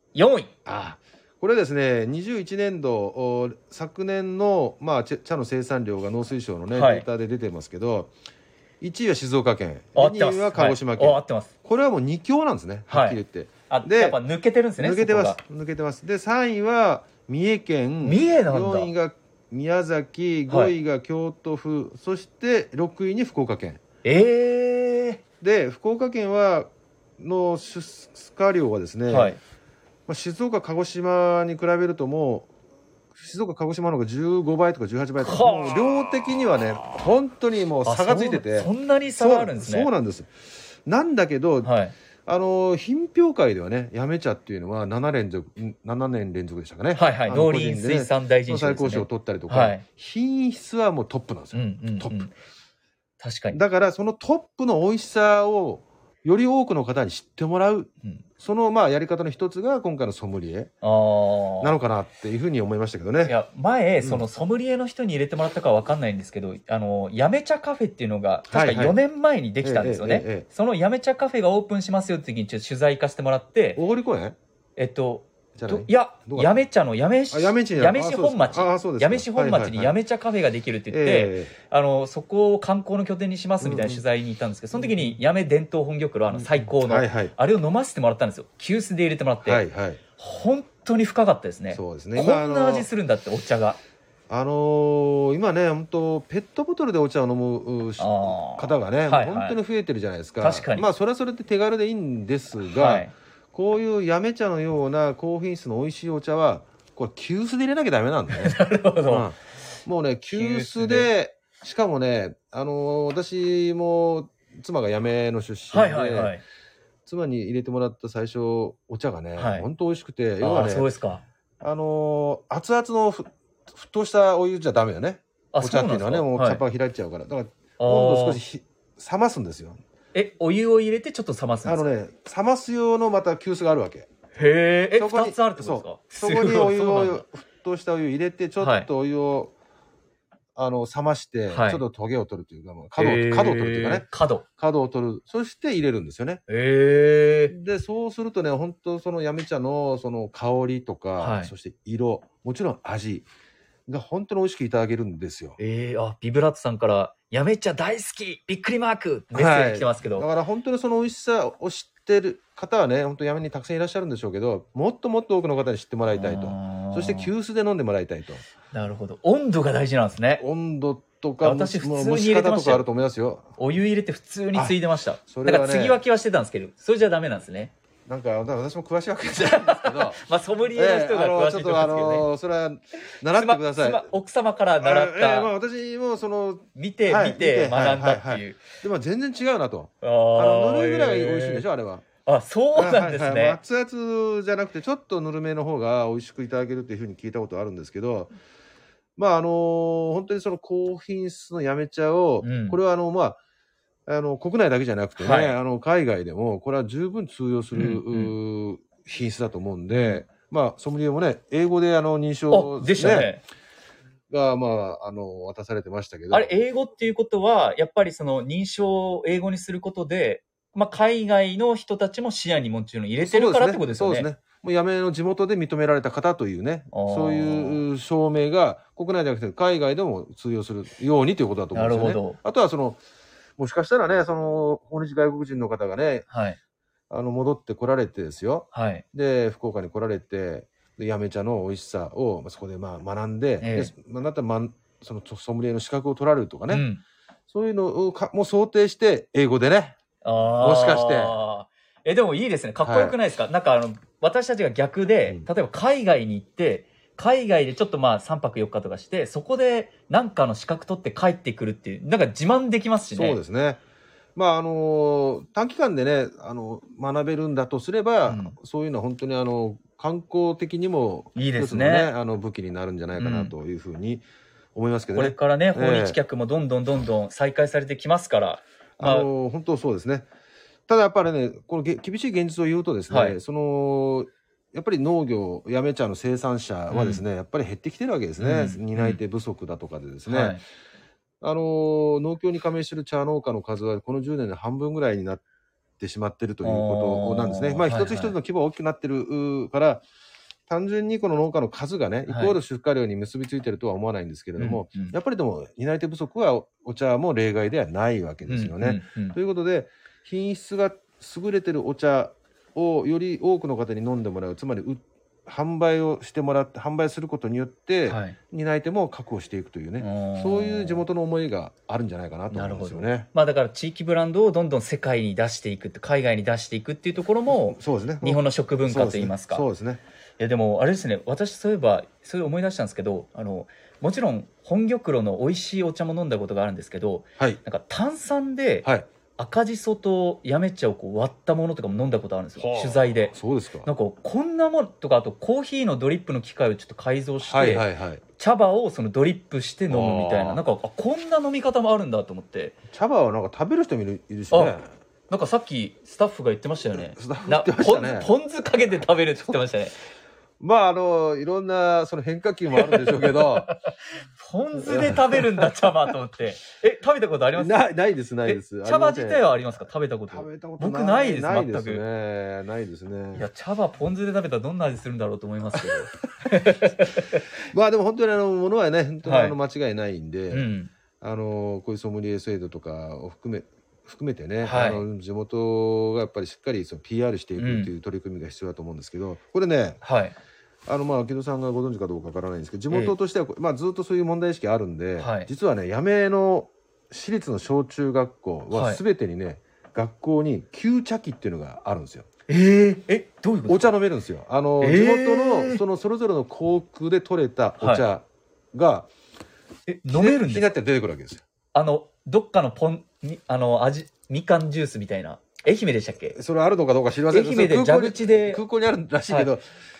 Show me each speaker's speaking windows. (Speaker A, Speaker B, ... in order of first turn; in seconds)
Speaker A: 0.1-0.5, 6.7-7.1, 9.9-11.5, 12.9-15.4, 18.0-18.9, 20.5-20.7, 24.0-25.2, 29.1-29.4, 35.2-36.0, 37.8-39.9, 41.6-41.9, 46.9-49.8, 51.5-52.3, 53.2-53.6, 60.8-61.8, 63.2-73.8, 74.8-89.6, 90.2-93.8, 98.0-99.6, 100.4-100.9, 102.6-103.1, 108.3-109.3, 110.3-111.1, 115.7-116.4, 119.4-119.7, 120.4-121.2, 125.5-126.6, 127.8-128.4, 130.1-131.8, 134.3-137.2, 138.6-138.9, 141.5-141.8, 143.0-144.4, 146.5-147.5, 151.2-151.5, 155.6-160.3, 166.1-167.3, 168.7-170.4, 171.4-172.8, 173.6-177.7, 179.4-182.3, 183.3-185.5, 186.7-188.6, 190.0-191.7, 192.2-193.6, 202.4-202.8, 205.2-205.6, 207.7-208.3, 209.9-210.2, 212.5-213.4, 216.3-224.3, 226.9-227.8, 231.7-232.4, 236.3-236.6, 238.7-239.0, 243.6-243.9, 246.7-247.0, 250.2-263.4, 268.3-268.6, 271.4-272.1, 273.2-273.5, 275.1-279.3, 283.1-283.4, 286.9-287.2, 288.4-289.2, 290.3-290.6, 296.6-298.4, 302.3-302.6, 304.6-305.1, 308.5-309.4, 318.1-318.4, 320.0-321.0, 322.5-329.7, 330.4-352.8, 354.5-354.8, 355.3-359.9, 362.8-367.8, 368.4-372.0, 373.4-377.4, 379.2-379.6, 380.5-380.9, 384.6-385.0, 387.6-387.9, 390.0-390.4, 392.9-393.1, 395.2-395.5, 398.7-399.0, 402.5-403.9, 404.8-405.8, 407.8-408.1, 409.9-410.7, 411.7-416.4, 417.3-418.6
Speaker B: 0.7-8.1, 8.8-14.2, 14.8-23.8, 25.4-29.4, 30.1-32.5, 33.1-40.3, 40.9-41.7, 42.2-52.2, 53.5-60.7, 61.6-63.3, 68.5-69.0, 69.6-70.5, 73.8-74.3, 75.5-76.6, 77.3-80.0, 80.9-81.5, 83.6-84.0, 84.7-85.2, 86.3-87.3, 89.4-90.0, 91.7-92.9, 94.3-116.3, 117.0-120.9, 121.6-129.8, 131.7-134.1, 135.0-139.5, 140.6-144.1, 144.6-146.4, 147.5-153.3, 153.9-155.6, 159.3-168.4, 170.4-173.5, 174.5-176.0, 178.1-180.2, 180.7-184.1, 184.8-192.0, 192.7-198.3, 199.2-203.4, 204.1-213.3, 214.3-216.6, 223.2-233.0, 233.6-236.2, 237.1-246.8, 247.5-250.0, 250.6-251.3, 252.8-253.2, 263.1-263.8, 264.4-276.2, 279.0-280.3, 280.9-290.6, 291.4-295.4, 296.0-300.0, 300.7-323.3, 327.5-330.0, 342.6-343.9, 347.5-348.2, 349.9-350.6, 352.9-354.9, 357.1-358.3, 360.6-363.7, 364.8-365.6, 367.6-369.5, 370.3-373.5, 375.7-376.1, 377.7-380.7, 381.2-390.0, 390.9-402.2, 403.7-409.1, 410.1-411.4, 416.3-419.6